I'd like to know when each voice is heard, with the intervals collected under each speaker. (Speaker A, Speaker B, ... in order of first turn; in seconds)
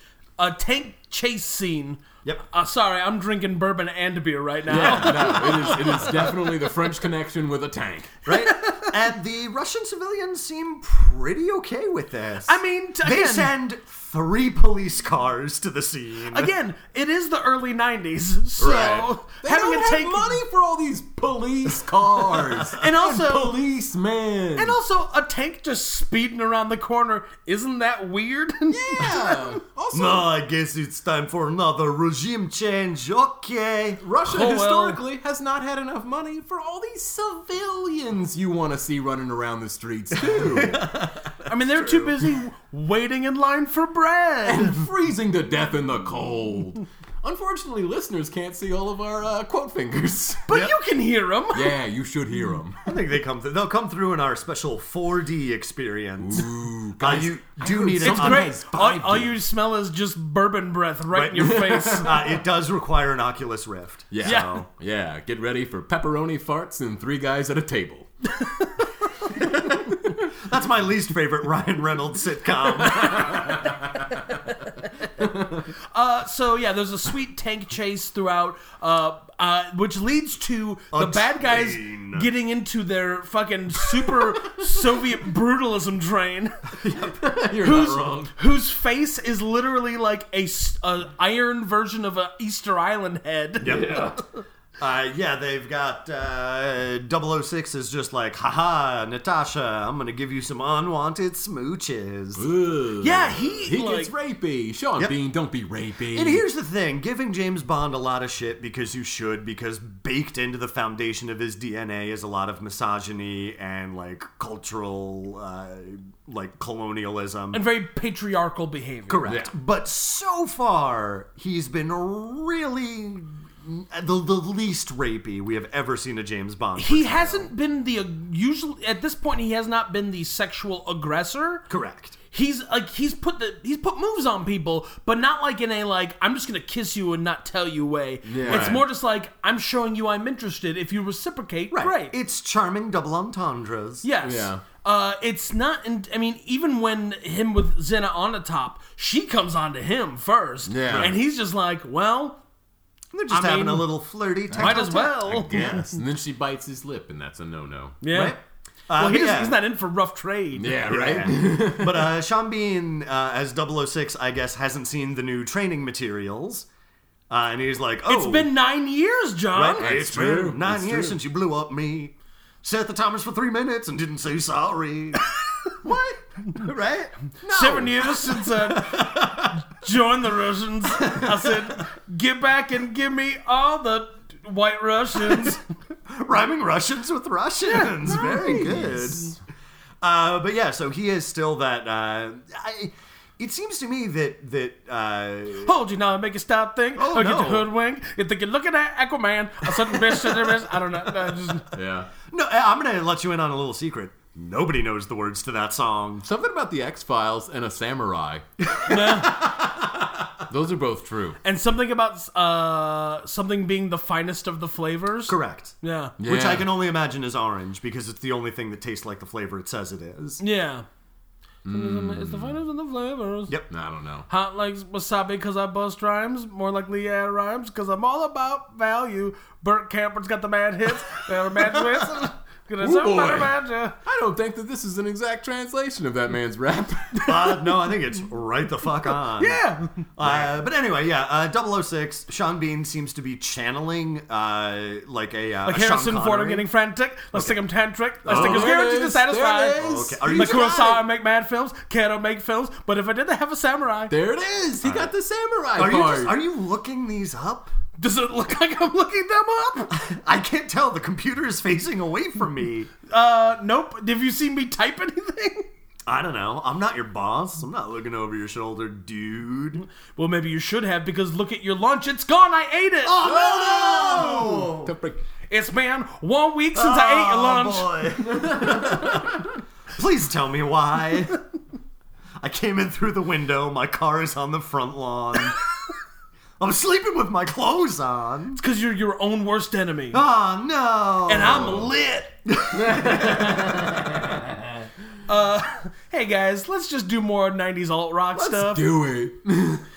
Speaker A: 0.4-6.5, 8.3-8.9, 12.4-13.5, 16.3-20.4, 22.8-23.6, 24.6-29.6, 34.2-35.0, 41.4-44.8, 50.5-51.7, 58.0-62.1, 75.8-86.7, 87.6-94.1, 103.0-104.1, 117.5-119.3, 126.7-131.6, 132.3-142.1, 144.0-152.4, 153.3-153.9, 154.6-155.8, 158.0-158.4, 158.9-160.7, 168.1-169.9, 177.5-185.6, 187.7-188.7, 195.6-201.7, 208.8-209.4, 211.4-216.1, 220.4-220.8, 221.7-223.6, 224.3-234.0, 239.4-239.9, 245.7-254.1, 258.0-259.9, 263.1-265.7, 270.1-273.2, 275.5-278.0, 288.6-290.2, 291.3-292.3, 295.3-298.9
Speaker B: 4.7-8.2, 18.7-24.8, 28.7-30.3, 34.0-40.8, 44.4-50.4, 51.5-52.8, 56.2-59.4, 61.4-62.1, 64.1-68.3, 73.2-73.6, 86.8-88.3, 93.6-94.2, 102.3-106.4, 119.2-119.5, 138.2-138.8, 144.2-144.6, 150.7-151.2, 154.5-158.0, 160.5-162.1, 169.8-171.2, 177.4-178.1, 188.0-189.3, 201.7-202.1, 206.2-209.5, 210.5-211.4, 216.2-216.7, 221.6-222.6, 223.7-224.3, 232.8-237.3, 240.2-240.5, 248.2-250.6, 254.1-256.3, 273.2-275.2, 278.2-279.5, 292.8-294.5, 298.3-299.8
Speaker C: 8.2-16.5, 18.6-19.1, 22.2-22.8, 29.9-34.0, 40.2-42.3, 52.8-58.5, 61.1-64.7, 70.4-73.7, 80.9-82.3, 93.6-94.1, 94.8-102.5, 106.1-117.6, 119.1-127.5, 131.7-132.2, 138.4-138.8, 141.7-144.1, 150.9-151.2, 153.1-155.1, 158.1-159.6, 160.8-166.7, 167.3-168.5, 169.5-177.1, 178.3-179.6, 181.0-181.8, 186.1-189.3, 190.0-195.7, 196.9-197.7, 199.8-200.6, 202.3-206.2, 208.7-210.1, 215.3-220.4, 231.8-232.2, 237.2-239.6, 240.2-246.7, 248.2-248.8, 249.8-251.0, 254.8-255.1, 255.8-257.7, 259.9-262.9, 266.1-269.8, 273.0-274.9, 276.7-281.4, 282.4-285.6, 286.6-288.6, 290.1-291.9, 292.5-294.0